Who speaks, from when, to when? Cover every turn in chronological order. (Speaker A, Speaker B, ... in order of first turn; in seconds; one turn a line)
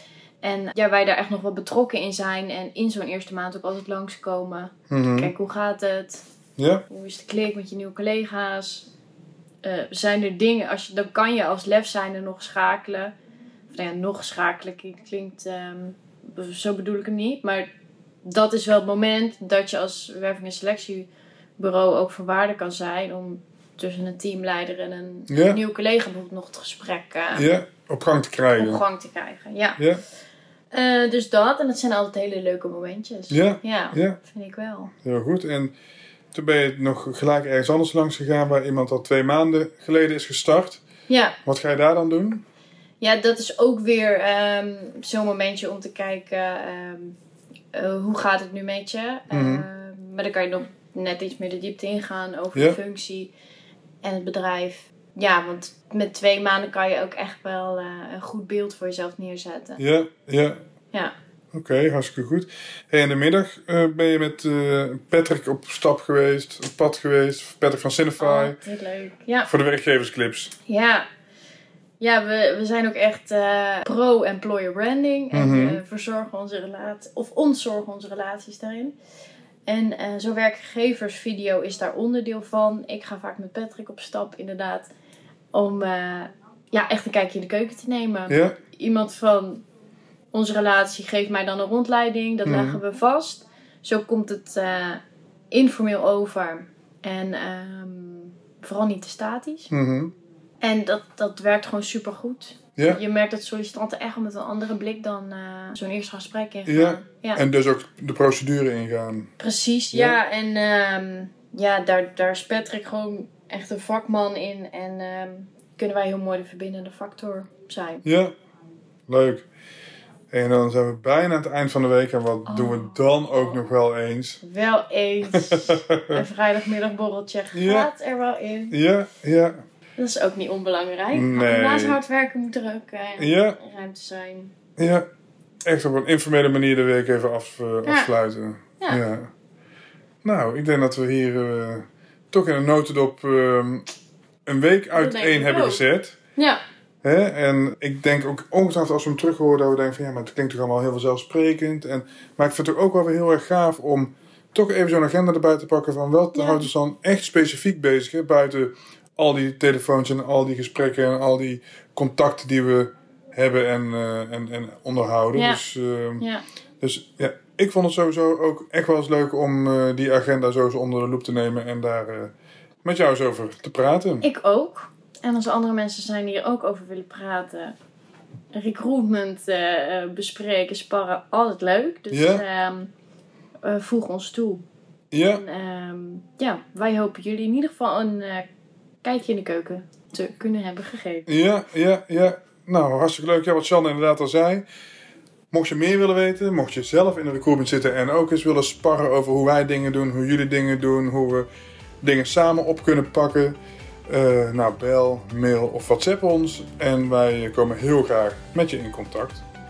Speaker A: 0.4-6.2
Speaker B: 4.9-5.3
Speaker B: 6.6-6.8
Speaker A: 6.9-8.9
Speaker A: 9.6-13.1
Speaker A: 13.7-17.7
Speaker A: 18.2-21.1
Speaker A: 21.6-27.5
Speaker B: 25.3-25.6
Speaker B: 27.4-28.8
Speaker A: 28.6-29.8
Speaker B: 29.8-30.0
Speaker A: 30.7-34.9
Speaker B: 33.3-34.2
Speaker B: 35.0-35.7
Speaker B: 36.3-40.8
Speaker A: 41.1-41.4
Speaker B: 41.5-42.4
Speaker A: 43.0-47.2
Speaker A: 47.7-53.3
Speaker B: 49.3-49.7
Speaker A: 54.0-59.8
Speaker B: 59.8-60.6
Speaker B: 61.5-68.6
Speaker A: 68.2-69.5
Speaker B: 69.5-70.5
Speaker A: 70.7-71.1
Speaker A: 72.0-79.0
Speaker B: 75.3-75.8
Speaker A: 79.7-84.9
Speaker A: 85.5-89.6
Speaker B: 88.3-88.6
Speaker A: 90.3-95.0
Speaker B: 92.5-92.8
Speaker A: 95.5-99.7
Speaker B: 99.7-100.1
Speaker A: 100.6-107.4
Speaker B: 106.7-109.3
Speaker A: 109.4-118.0
Speaker B: 109.9-110.2
Speaker B: 118.0-118.3
Speaker B: 119.1-119.5
Speaker B: 120.3-124.4
Speaker A: 122.5-123.6
Speaker A: 124.4-128.8
Speaker B: 125.3-126.2
Speaker B: 127.5-127.9
Speaker B: 128.7-129.6
Speaker A: 130.0-134.6
Speaker B: 131.1-132.0
Speaker B: 133.2-133.6
Speaker B: 134.8-135.1
Speaker B: 135.7-139.3
Speaker A: 137.8-138.1
Speaker B: 140.2-143.9
Speaker B: 144.5-146.2
Speaker A: 144.9-145.8
Speaker A: 146.4-146.6
Speaker B: 147.0-166.3
Speaker A: 156.3-156.7
Speaker A: 165.3-165.6
Speaker B: 166.8-172.3
Speaker B: 172.8-174.3
Speaker A: 174.2-177.7
Speaker A: 178.5-182.9
Speaker B: 182.1-182.4
Speaker A: 183.6-184.6
Speaker B: 185.1-185.4
Speaker A: 185.2-188.5
Speaker A: 189.0-191.3
Speaker B: 191.3-194.6
Speaker B: 195.5-201.5
Speaker B: 202.0-203.6
Speaker B: 204.1-209.4